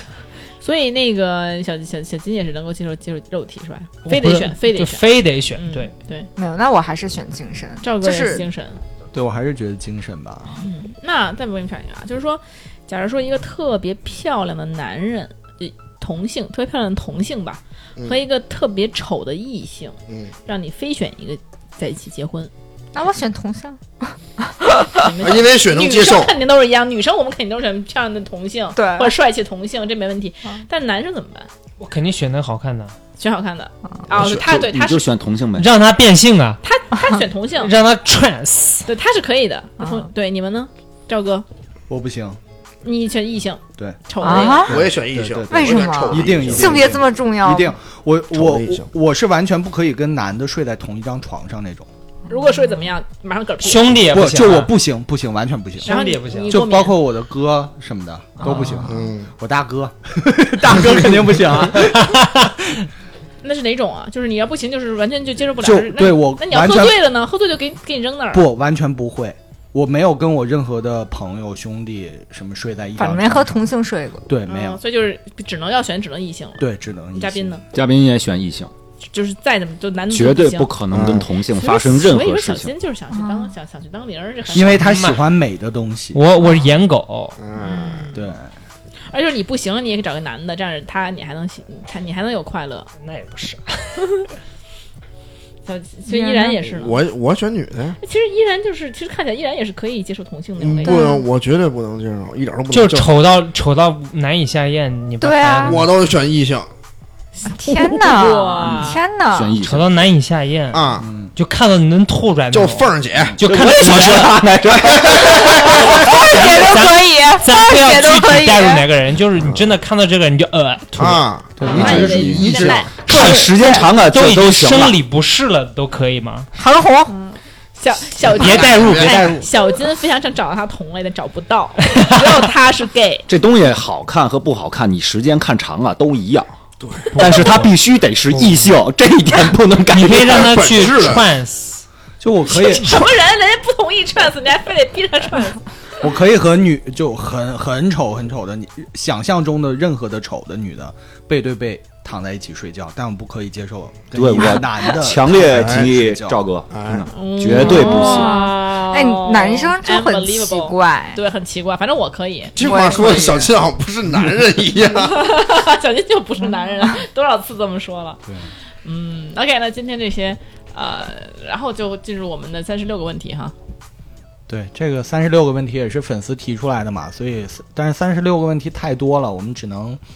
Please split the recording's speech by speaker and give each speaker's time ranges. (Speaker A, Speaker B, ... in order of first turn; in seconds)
Speaker A: 0.6-6.3, 7.8-8.8, 10.6-22.5, 25.0-31.5, 33.2-35.0, 36.6-37.7, 38.9-41.5, 42.8-44.7, 52.3-54.1, 55.9-57.0, 63.4-68.5, 74.5-77.6, 79.0-80.7, 81.5-84.8, 87.6-88.3, 89.0-92.9, 95.7-97.0, 98.0-101.1, 107.4-109.0, 121.7-123.0, 127.1-133.3, 142.4-145.7, 157.1-163.0, 164.9-168.2, 168.8-173.5
Speaker B: 4.0-5.9, 31.8-33.0, 35.6-36.6, 37.5-38.9, 53.6-54.7, 55.8-56.6, 58.4-58.9, 61.8-62.5, 84.6-85.3, 86.1-87.4, 93.0-94.0, 102.7-105.9, 109.6-114.5, 116.2-121.3, 123.0-126.5, 128.3-129.5, 131.9-132.4, 137.1-137.7, 139.9-141.8
Speaker C: 6.4-8.5, 22.9-24.9, 28.8-29.1, 44.2-44.9, 45.5-47.8, 73.0-74.3, 83.1-83.5, 96.1-96.6, 100.8-101.3, 105.2-105.9, 107.5-109.5, 115.9-118.8, 126.6-127.1, 157.5-161.2, 162.6-163.5
Speaker D: 9.1-10.6, 41.9-42.4, 43.8-51.9, 54.0-62.2, 65.6-67.0, 68.3-73.6, 74.3-74.8, 76.6-77.6, 84.5-86.2, 88.1-88.5, 111.0-111.3, 121.6-122.8, 142.2-143.0, 146.0-156.4, 174.5-180.0
Speaker E: 25.2-26.3, 44.7-46.9, 48.3-48.9, 58.9-59.3, 80.9-81.3, 87.4-88.1, 96.7-98.0, 100.6-103.2, 105.7-106.7, 110.7-111.1, 112.5-113.4, 114.8-115.5, 121.0-122.9, 128.3-129.3, 136.8-137.2, 140.3-141.3, 155.4-155.9, 156.7-157.1, 162.6-165.2
Speaker F: 34.1-35.7, 77.7-78.7, 80.1-82.7, 109.3-109.9, 113.4-116.2, 121.7-122.4, 123.0-125.0, 133.3-136.5, 137.2-140.5, 154.1-158.3